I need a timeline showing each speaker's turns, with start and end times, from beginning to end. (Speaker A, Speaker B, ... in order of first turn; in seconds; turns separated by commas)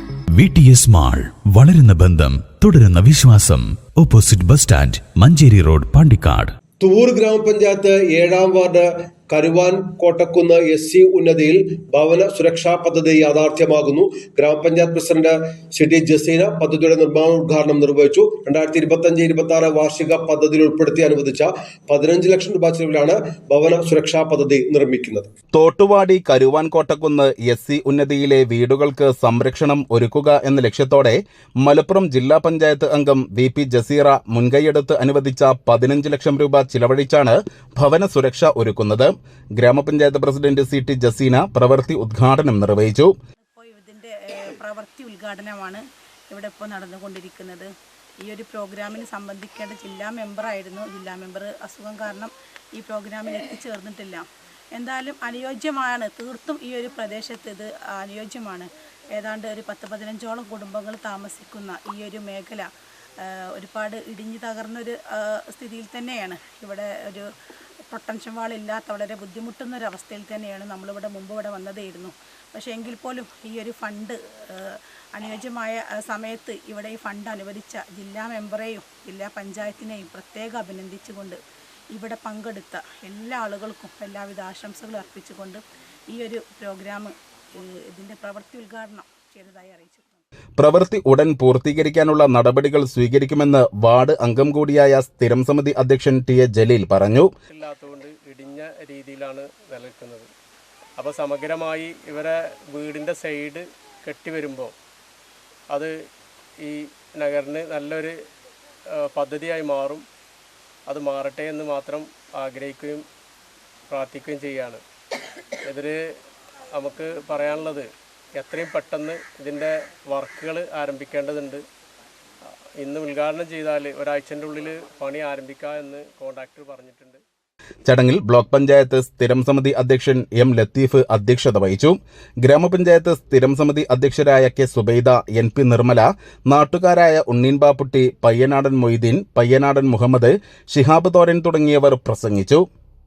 Speaker A: 0.3-6.5, Speaker B: 6.8-25.3, Speaker C: 25.5-43.1, Speaker D: 43.5-47.7, Speaker D: 48.2-54.2, Speaker D: 54.7-62.7, Speaker D: 63.2-67.3, Speaker D: 67.9-81.4, Speaker D: 81.9-90.2, Speaker C: 90.6-97.3, Speaker E: 97.5-100.3, Speaker E: 101.0-104.7, Speaker E: 106.6-108.1, Speaker E: 109.0-110.0, Speaker E: 110.9-113.0, Speaker E: 113.9-114.8, Speaker E: 115.7-116.0, Speaker E: 116.7-121.6, Speaker E: 122.8-127.2, Speaker C: 127.9-142.6